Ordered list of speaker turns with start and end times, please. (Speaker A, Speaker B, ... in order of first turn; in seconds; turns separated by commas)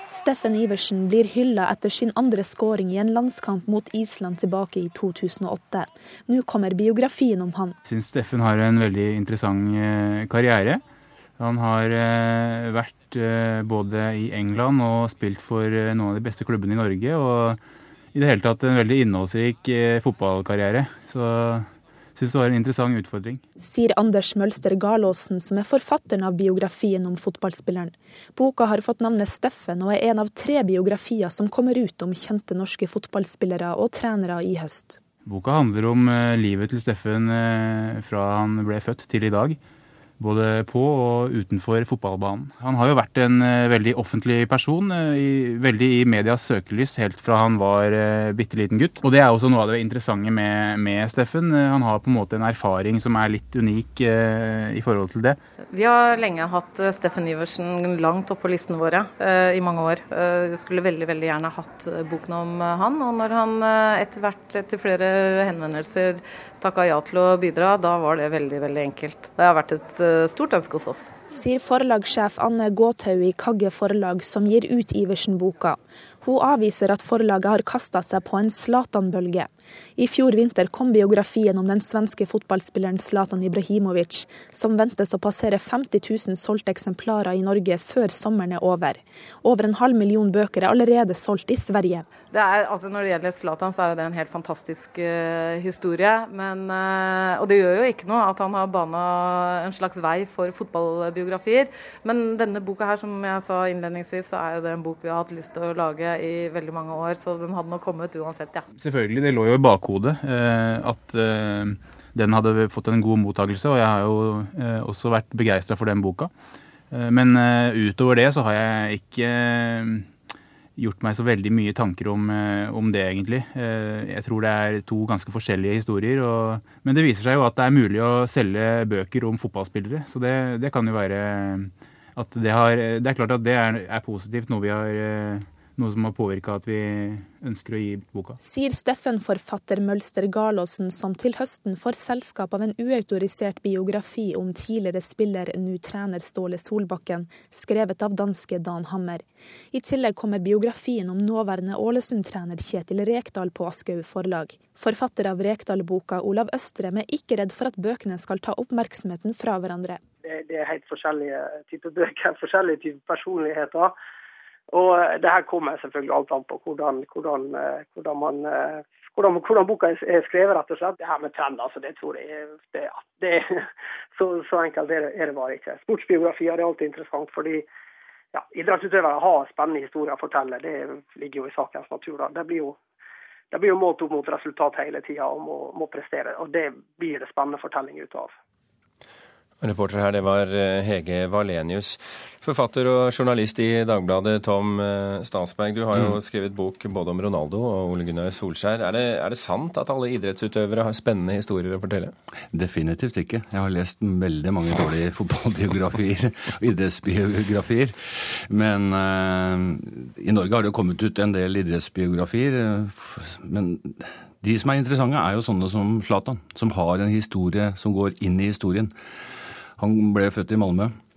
Speaker A: 0.1-7.8, Speaker B: 7.8-10.8, Speaker B: 11.4-17.6, Speaker B: 18.1-23.4, Speaker A: 23.6-35.0, Speaker B: 35.3-39.6, Speaker B: 40.2-55.4, Speaker C: 55.7-71.2, Speaker A: 71.3-92.1, Speaker C: 92.3-108.7, Speaker B: 108.8-116.3, Speaker B: 116.9-120.1, Speaker B: 120.8-138.4, Speaker A: 138.4-160.0, Speaker D: 160.2-163.9, Speaker D: 164.7-177.7, Speaker D: 178.3-182.8, Speaker D: 183.5-188.3, Speaker E: 189.6-202.1, Speaker F: 202.5-218.9, Speaker F: 219.8-220.9